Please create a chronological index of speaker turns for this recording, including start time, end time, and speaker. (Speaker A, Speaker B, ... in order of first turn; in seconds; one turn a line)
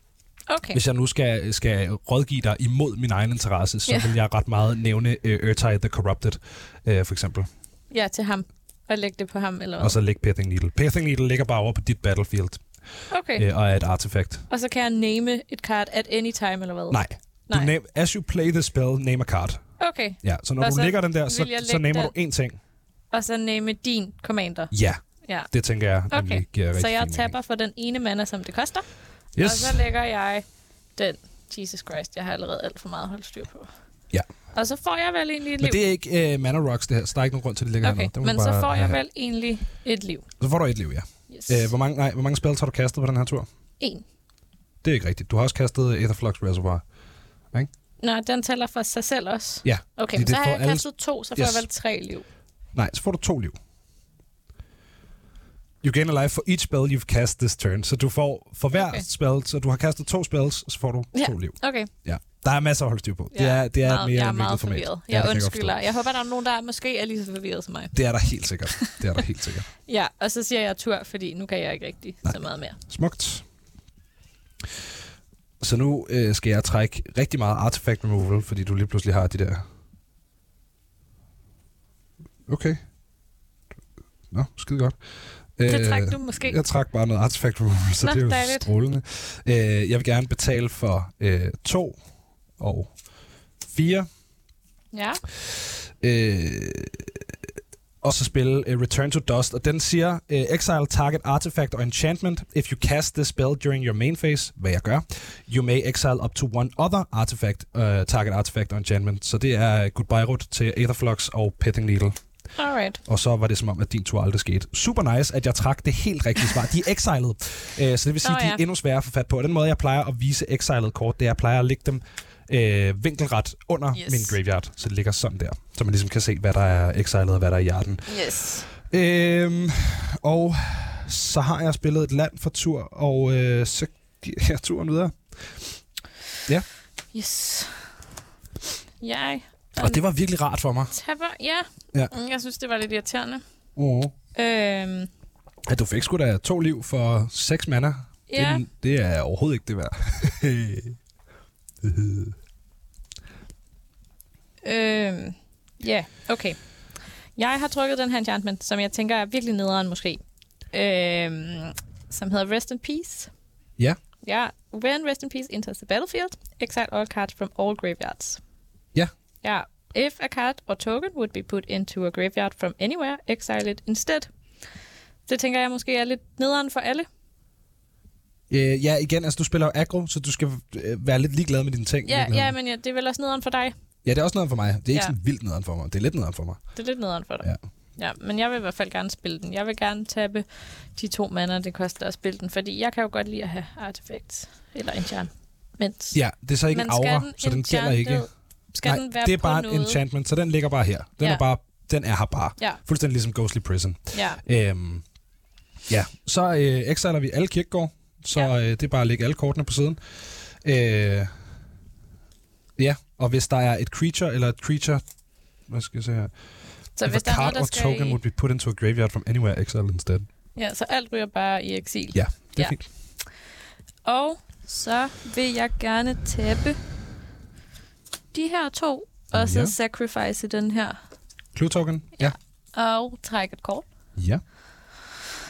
Speaker A: 0.5-0.8
Speaker B: 0.7-7.5
Speaker A: 3.9-4.1
Speaker A: 7.9-9.9
Speaker B: 9.8-12.6
Speaker A: 13.1-13.4
Speaker B: 13.3-14.4
Speaker A: 14.5-17.7
Speaker B: 16.9-19.6
Speaker A: 19.8-22.1
Speaker B: 20.2-22.6
Speaker A: 23.1-24.7
Speaker B: 24.7-27.3
Speaker A: 25.2-25.5
Speaker A: 26.1-28.8
Speaker B: 29.4-29.8
Speaker A: 29.4-30.4
Speaker A: 30.9-33.7
Speaker A: 34.5-35.8
Speaker B: 35.6-39.0
Speaker A: 37.8-40.3
Speaker B: 40.4-43.5
Speaker A: 41.3-41.7
Speaker B: 44.8-46.8
Speaker A: 48.0-52.2
Speaker B: 49.6-51.6
Speaker B: 52.7-53.5
Speaker B: 55.8-65.8
Speaker A: 58.7-59.0
Speaker A: 61.1-61.9
Speaker A: 63.3-67.9
Speaker B: 67.9-69.7
Speaker A: 68.7-69.0
Speaker A: 69.9-72.8
Speaker B: 72.2-73.4
Speaker B: 75.6-79.6
Speaker B: 82.5-82.8
Speaker B: 84.3-85.0
Speaker B: 85.6-92.0
Speaker A: 85.7-86.6
Speaker A: 88.0-88.7
Speaker B: 92.6-92.9
Speaker B: 93.6-94.1
Speaker A: 94.9-95.2
Speaker B: 95.4-97.3
Speaker B: 98.0-112.2
Speaker A: 112.5-113.0
Speaker B: 113.0-135.7
Speaker A: 118.2-118.6
Speaker A: 123.9-124.4
Speaker A: 128.1-128.7
Speaker A: 137.1-137.9
Speaker A: 139.0-140.0
Speaker B: 139.8-140.9
Speaker A: 140.9-143.4
Speaker B: 143.8-144.1
Speaker A: 144.3-145.1
Speaker B: 145.7-151.0
Speaker A: 148.3-148.6
Speaker B: 151.8-152.3
Speaker A: 154.6-156.6
Speaker A: 157.3-163.3
Speaker A: 164.2-168.4
Speaker A: 169.4-174.3
Speaker A: 175.3-177.1
Speaker B: 178.5-182.5
Speaker A: 182.0-183.7
Speaker B: 184.0-186.6
Speaker A: 186.7-196.2
Speaker B: 196.1-198.3
Speaker A: 196.7-200.0
Speaker B: 198.8-205.0
Speaker A: 204.1-204.4
Speaker B: 205.9-210.0
Speaker B: 210.6-211.3
Speaker B: 212.8-215.0
Speaker B: 215.7-216.3
Speaker A: 216.9-218.2
Speaker B: 217.0-220.3
Speaker A: 220.6-222.8
Speaker B: 222.1-222.8
Speaker A: 224.0-226.8
Speaker A: 228.3-231.0
Speaker B: 229.3-229.7
Speaker B: 231.5-232.3
Speaker A: 232.2-233.8
Speaker B: 234.2-234.4